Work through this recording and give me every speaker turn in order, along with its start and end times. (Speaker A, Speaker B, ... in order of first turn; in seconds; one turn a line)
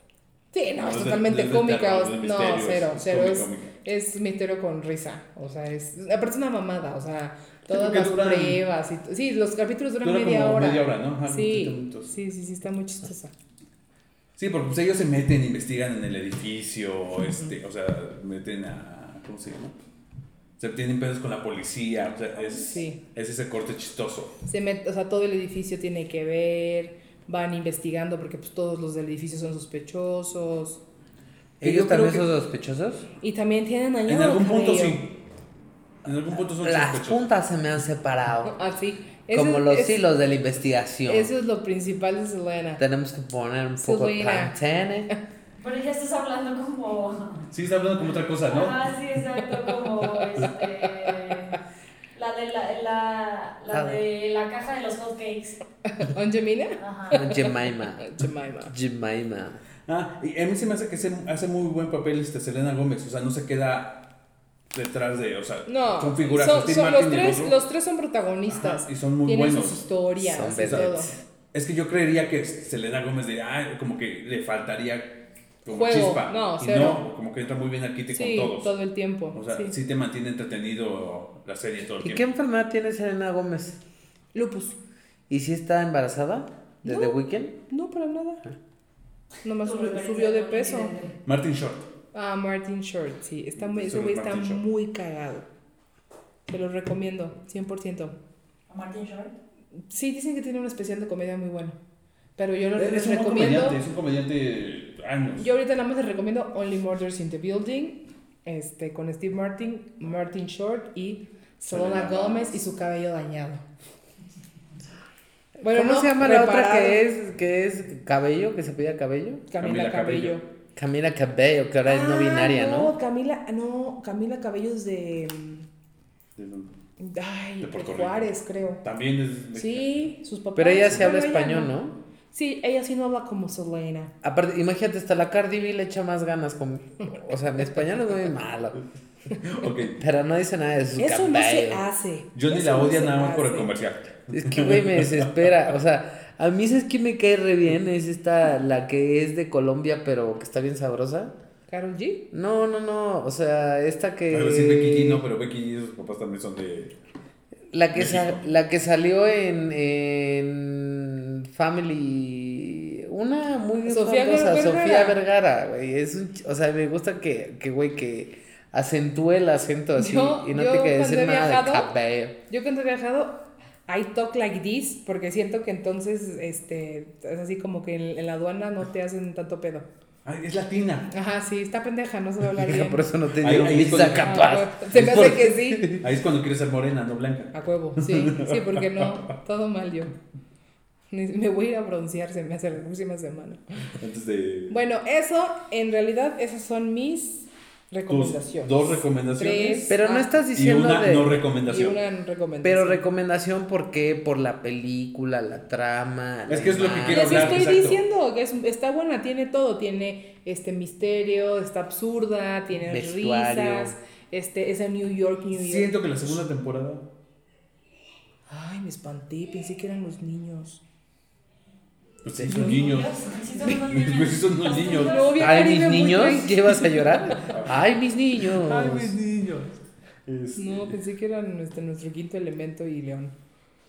Speaker A: 0.5-13.3
Speaker B: 0.8-3.7
Speaker B: 7.7-8.6
Speaker B: 10.0-12.1
Speaker B: 14.4-19.8
Speaker B: 20.6-24.4
Speaker A: 22.5-23.0
Speaker A: 24.5-30.8
Speaker C: 31.6-33.1
Speaker B: 31.6-32.3
Speaker A: 33.2-35.0
Speaker B: 34.1-35.1
Speaker B: 36.0-37.2
Speaker C: 36.6-38.5
Speaker A: 38.5-40.0
Speaker C: 39.3-41.3
Speaker A: 41.1-42.8
Speaker C: 42.8-45.1
Speaker A: 43.8-44.6
Speaker D: 45.6-47.5
Speaker B: 47.5-48.8
Speaker D: 48.5-51.6
Speaker D: 52.1-55.6
Speaker C: 53.7-54.0
Speaker A: 55.9-58.7
Speaker D: 56.8-57.2
Speaker C: 57.1-58.1
Speaker C: 58.7-59.6
Speaker B: 59.9-64.0
Speaker B: 64.7-67.6
Speaker A: 65.7-71.1
Speaker B: 68.5-69.8
Speaker C: 70.2-71.2
Speaker B: 70.5-78.7
Speaker A: 75.7-77.1
Speaker A: 78.1-79.8
Speaker B: 79.3-82.3
Speaker C: 82.0-83.8
Speaker A: 84.3-84.8
Speaker C: 85.3-87.6
Speaker A: 86.8-88.4
Speaker A: 89.4-90.9
Speaker D: 89.6-91.2
Speaker B: 91.3-91.9
Speaker A: 92.1-95.5
Speaker B: 93.6-94.6
Speaker A: 96.5-98.2
Speaker D: 98.7-99.3
Speaker A: 99.9-101.8
Speaker A: 102.4-103.8
Speaker B: 102.8-105.5
Speaker A: 105.4-113.6
Speaker B: 111.7-112.6
Speaker A: 115.6-117.1
Speaker C: 115.6-119.5
Speaker A: 119.5-120.5
Speaker B: 119.6-120.4
Speaker C: 120.8-122.9
Speaker A: 121.8-125.7
Speaker B: 126.4-126.7
Speaker A: 127.0-128.8
Speaker B: 127.6-128.3
Speaker B: 128.8-130.0
Speaker A: 129.6-131.8
Speaker C: 130.6-132.0
Speaker A: 132.3-134.1
Speaker C: 134.2-138.8
Speaker B: 139.3-140.0
Speaker C: 139.9-141.8
Speaker A: 141.0-143.7
Speaker B: 142.3-145.3
Speaker C: 144.3-151.3
Speaker A: 151.7-152.3
Speaker C: 152.3-155.2
Speaker B: 154.3-157.0
Speaker C: 157.7-172.3
Speaker B: 157.9-158.4
Speaker A: 163.8-165.2
Speaker A: 169.9-171.9
Speaker A: 172.5-179.9
Speaker B: 180.2-181.1
Speaker A: 181.1-183.1
Speaker C: 182.5-186.1
Speaker B: 183.4-185.4
Speaker A: 184.2-186.0
Speaker B: 186.0-189.3
Speaker A: 187.5-190.2
Speaker A: 191.1-193.9
Speaker B: 194.0-194.8
Speaker A: 194.7-200.3
Speaker B: 198.1-200.0
Speaker C: 199.9-201.4
Speaker B: 200.5-202.0
Speaker A: 201.7-203.0
Speaker C: 202.6-207.7
Speaker B: 206.5-208.0
Speaker A: 207.1-216.3
Speaker C: 212.9-213.9
Speaker B: 215.5-217.1
Speaker A: 218.5-220.8
Speaker B: 222.2-225.4
Speaker A: 222.5-223.0
Speaker D: 222.5-225.6
Speaker A: 224.8-227.5
Speaker C: 225.4-229.2
Speaker B: 227.4-227.8
Speaker B: 228.5-231.0
Speaker A: 230.6-233.3